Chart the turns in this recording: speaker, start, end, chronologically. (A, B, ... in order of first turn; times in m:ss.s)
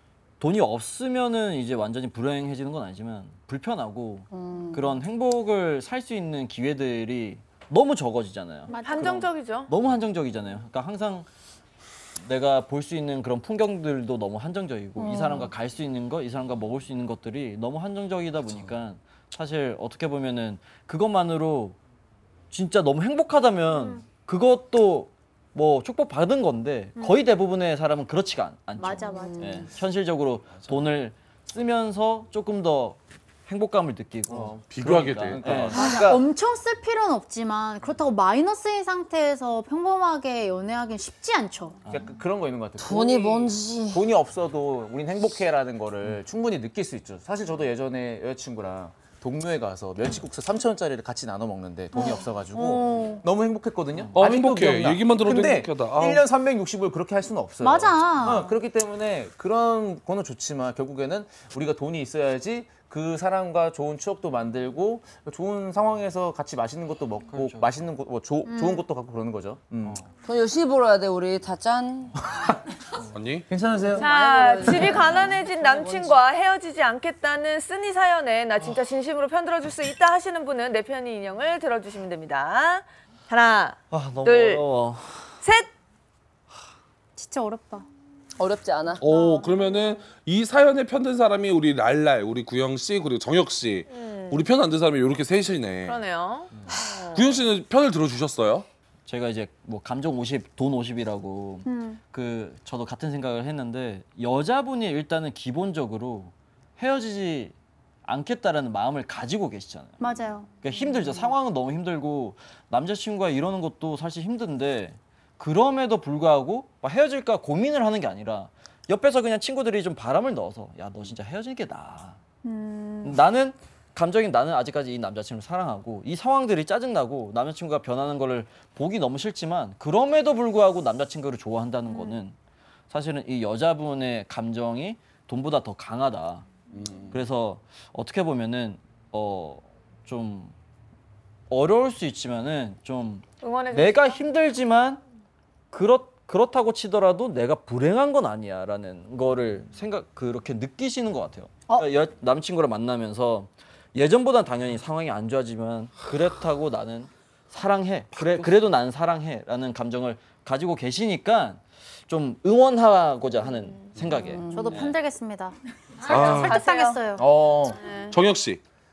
0:00.4-0:11.3 A
0:04.3-0:04.9 B
0:08.7-0:09.1 C
0:08.8-0:09.7 D
0:12.2-0:21.8 A
0:15.0-0:15.5 B
0:22.5-0:35.8 A
0:23.7-0:24.0 C
0:28.8-0:29.6 C
0:29.1-0:29.7 B
0:34.3-0:36.3 E
0:34.7-0:35.9 F
0:35.7-0:41.8 C
0:41.9-1:10.0 E
0:42.8-0:43.8 B
0:51.9-0:53.2 C
0:54.1-0:56.2 F
0:57.6-0:58.5 C
1:07.3-1:07.7 A
1:08.5-1:08.8 C
1:10.2-1:12.2 B
1:13.1-1:13.5 F
1:13.5-1:14.1 E
1:13.9-1:16.2 B
1:14.0-1:24.6 D
1:23.9-1:25.3 A
1:25.4-1:25.7 D
1:27.2-1:27.8 C
1:28.4-1:29.0 B
1:29.0-1:36.0 F
1:33.9-1:34.5 D
1:35.8-1:37.4 D
1:37.1-1:38.6 F
1:39.1-1:50.0 A
1:41.6-1:42.0 C
1:50.0-1:50.5 C
1:50.6-2:02.2 A
2:02.4-2:03.2 C
2:03.0-2:12.4 A
2:11.9-2:12.2 C
2:12.9-2:16.4 A
2:16.7-2:17.2 F
2:17.1-2:20.5 A
2:21.5-2:25.0 A
2:23.4-2:24.2 D
2:25.7-2:44.9 A
2:38.1-2:38.5 F
2:44.1-2:44.9 B
2:44.5-2:47.3 C
2:46.0-2:46.6 F
2:46.1-2:47.1 D
2:47.2-2:47.8 E
2:47.8-2:48.2 D
2:48.1-2:48.6 F